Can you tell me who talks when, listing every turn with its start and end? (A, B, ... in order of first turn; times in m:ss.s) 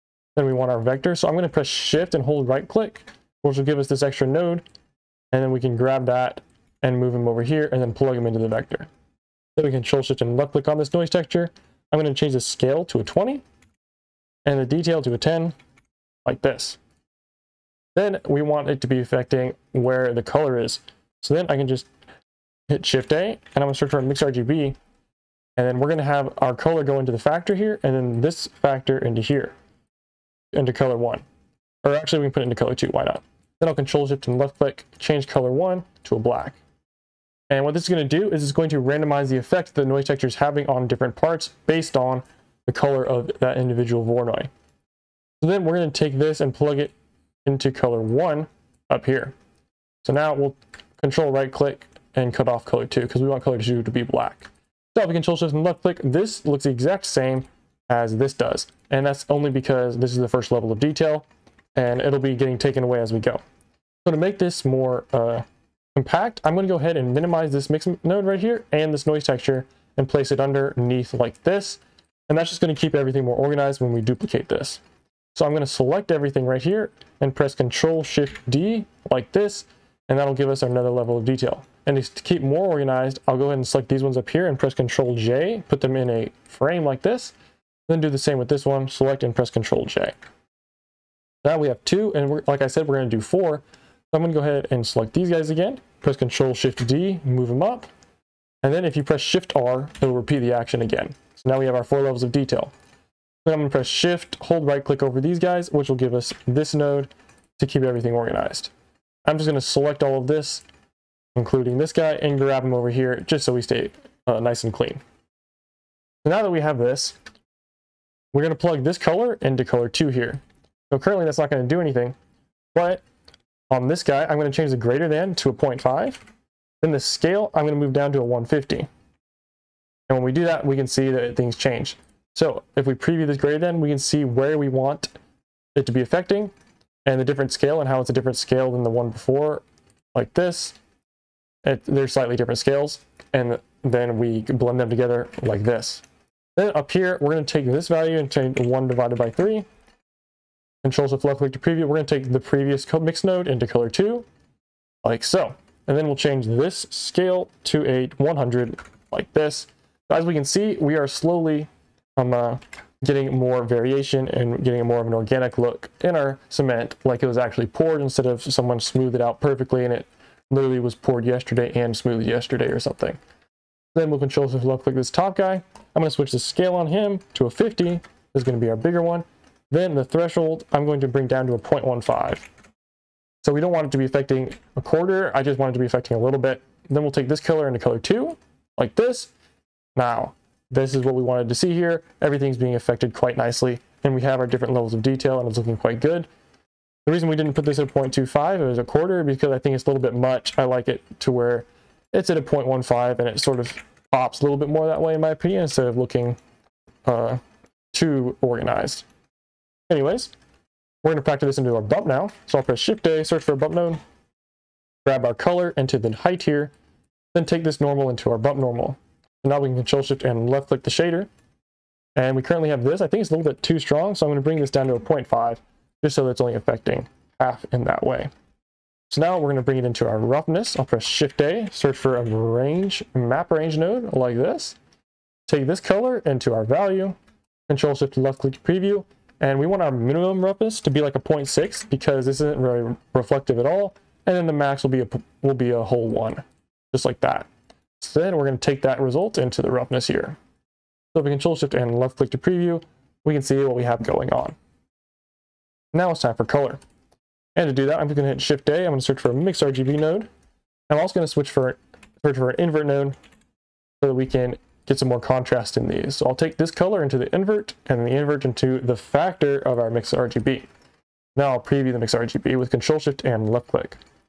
0:00.4-0:04.6 A
0:05.3-0:08.9 A
0:09.6-0:13.4 A
0:14.4-0:15.6 A
0:16.2-0:16.8 A
0:18.0-0:21.9 A
0:22.7-0:24.8 A
0:25.6-0:29.5 A
0:30.5-0:31.2 A
0:31.8-0:36.6 A
0:37.5-0:44.5 A
0:45.4-0:46.9 A
0:47.4-0:49.3 A
0:50.0-1:03.4 A
1:04.0-1:14.8 A
1:15.4-1:27.3 A
1:27.9-1:30.2 A
1:31.4-1:37.9 A
1:38.6-1:42.7 A
1:43.4-1:48.7 A
1:49.3-1:50.6 A
1:51.4-1:55.0 A
1:56.2-1:57.2 A
1:58.3-2:02.2 A
2:02.7-2:03.0 A
2:03.7-2:06.2 A
2:06.8-2:08.9 A
2:10.1-2:15.1 A
2:15.8-2:16.5 A
2:17.1-2:19.6 A
2:20.1-2:20.8 A
2:21.6-2:26.0 A
2:26.6-2:29.7 A
2:30.8-2:34.3 A
2:35.0-2:53.2 A
2:54.0-3:02.5 A
3:03.4-3:09.3 A
3:10.0-3:16.3 A
3:17.1-3:26.4 A
3:27.0-3:27.4 A
3:27.9-3:29.0 A
3:29.9-3:30.3 A
3:31.0-3:34.0 A
3:35.0-3:36.7 A
3:37.3-3:41.3 A
3:42.2-3:48.3 A
3:49.1-3:54.8 A
3:55.5-3:57.2 A
3:57.7-4:07.5 A
4:08.0-4:10.4 A
4:11.1-4:14.6 A
4:15.9-4:16.8 A
4:17.6-4:20.3 A
4:20.9-4:23.2 A
4:24.0-4:30.7 A
4:31.4-4:34.0 A